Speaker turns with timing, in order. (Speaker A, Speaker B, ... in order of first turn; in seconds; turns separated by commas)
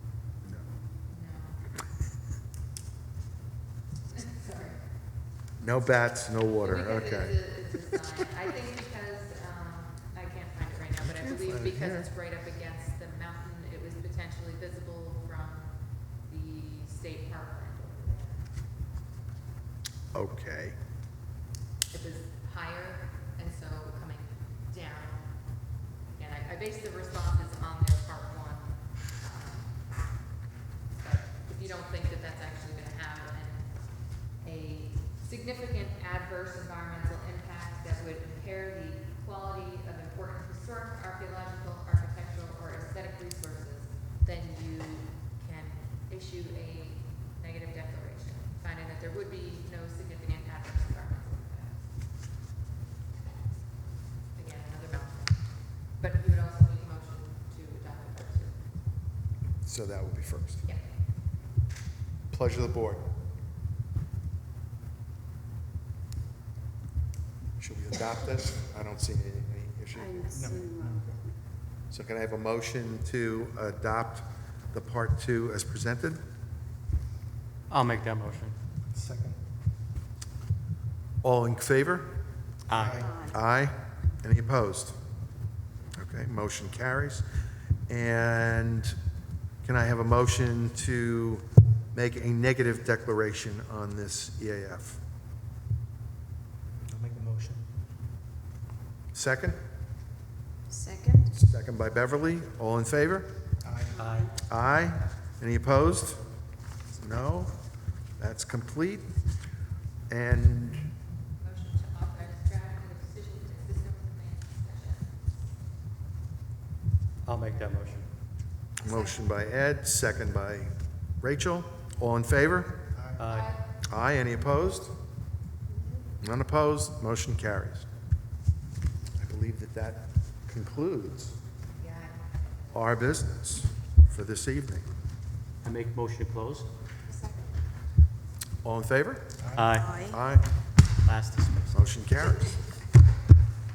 Speaker A: 1.1-1.6, Speaker A: 4.1-4.8, Speaker B: 5.6-7.4, Speaker A: 6.6-18.4, Speaker B: 11.2-12.1, Speaker B: 20.1-20.8, Speaker A: 21.9-25.3, Speaker A: 26.1-29.8, Speaker A: 30.9-33.7, Speaker A: 34.2-51.8, Speaker A: 54.3-58.6, Speaker B: 59.6-60.6, Speaker B: 62.3-63.0, Speaker B: 67.6-70.4, Speaker C: 69.9-71.0, Speaker D: 70.3-71.2, Speaker B: 71.9-76.2, Speaker E: 77.7-78.5, Speaker D: 78.9-79.4, Speaker B: 81.2-82.1, Speaker E: 82.7-83.0, Speaker D: 82.7-83.2, Speaker C: 83.0-83.3, Speaker B: 83.1-85.0, Speaker B: 85.9-87.2, Speaker B: 87.9-89.0, Speaker B: 89.6-95.0, Speaker D: 96.9-97.7, Speaker B: 99.1-99.6, Speaker C: 100.7-101.3, Speaker B: 101.3-103.3, Speaker D: 103.6-104.0, Speaker E: 103.9-104.3, Speaker C: 104.0-104.3, Speaker B: 104.5-106.2, Speaker B: 106.9-107.5, Speaker B: 108.2-109.0, Speaker B: 110.1-110.9, Speaker A: 111.4-115.1, Speaker E: 117.2-118.0, Speaker B: 118.8-122.8, Speaker D: 122.9-123.2, Speaker E: 123.2-123.5, Speaker A: 123.3-123.7, Speaker B: 123.8-124.9, Speaker B: 126.2-127.8, Speaker B: 129.2-131.3, Speaker A: 131.8-132.2, Speaker B: 132.7-134.8, Speaker E: 135.6-136.7, Speaker A: 137.1-137.4, Speaker B: 138.6-139.3, Speaker D: 139.4-139.7, Speaker E: 139.5-140.0, Speaker C: 139.7-140.2, Speaker B: 139.9-140.5, Speaker E: 141.0-141.8, Speaker B: 141.7-142.6